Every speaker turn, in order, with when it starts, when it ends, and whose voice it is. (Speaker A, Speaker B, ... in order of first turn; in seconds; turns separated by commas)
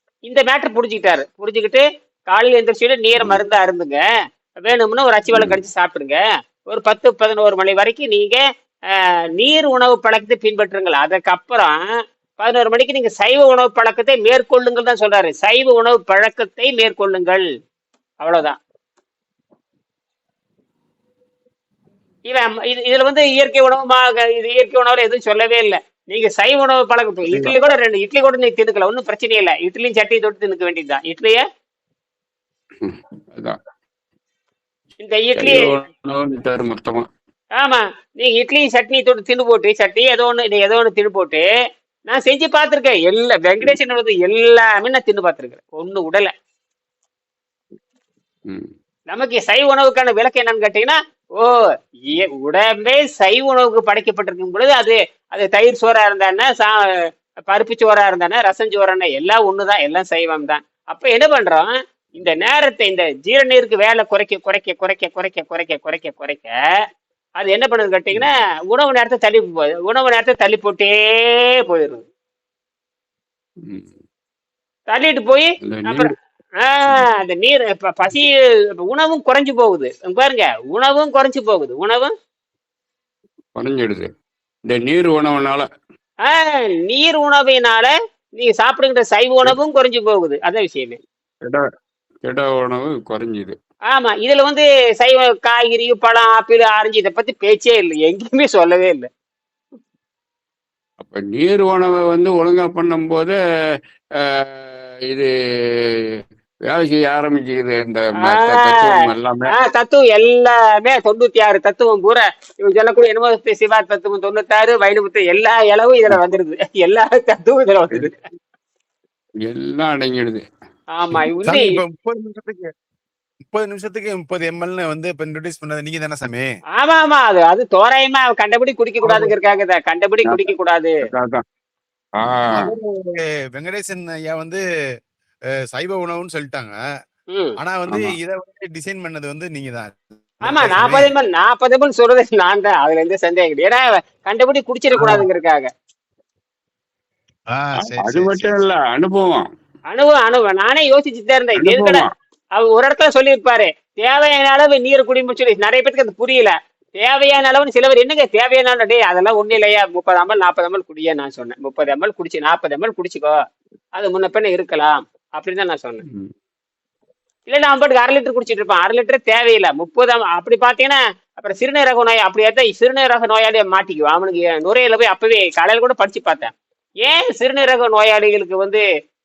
Speaker A: 0.2-4.0, Speaker A: 4.6-8.4, Speaker A: 9.4-11.8, Speaker A: 12.4-17.4, Speaker A: 18.2-18.6, Speaker A: 22.3-31.4, Speaker B: 32.8-33.6, Speaker A: 35.0-35.7, Speaker B: 35.4-37.1, Speaker A: 37.6-41.4, Speaker A: 42.1-46.3, Speaker A: 49.1-51.5, Speaker A: 52.1-56.8, Speaker A: 57.5-66.5, Speaker A: 67.4-72.0, Speaker A: 74.9-78.3, Speaker B: 75.6-76.1, Speaker A: 78.9-82.1, Speaker B: 83.6-84.1, Speaker B: 84.7-85.7, Speaker A: 86.2-91.0, Speaker B: 92.2-93.6, Speaker A: 93.9-99.1, Speaker B: 101.0-103.4, Speaker B: 104.4-105.3, Speaker B: 106.7-109.5, Speaker A: 108.2-108.9, Speaker A: 109.5-118.2, Speaker B: 119.5-120.4, Speaker A: 121.0-121.7, Speaker C: 121.4-122.7, Speaker C: 123.5-126.5, Speaker A: 126.8-130.9, Speaker C: 129.0-129.3, Speaker B: 131.1-131.4, Speaker B: 132.2-132.7, Speaker C: 132.5-134.6, Speaker C: 135.7-136.8, Speaker C: 137.6-141.1, Speaker A: 140.4-145.7, Speaker C: 145.0-145.2, Speaker C: 147.5-148.6, Speaker B: 147.8-149.4, Speaker A: 149.9-152.1, Speaker B: 151.6-152.1, Speaker A: 152.6-163.3, Speaker A: 163.9-166.0, Speaker A: 167.5-176.5, Speaker A: 177.0-178.8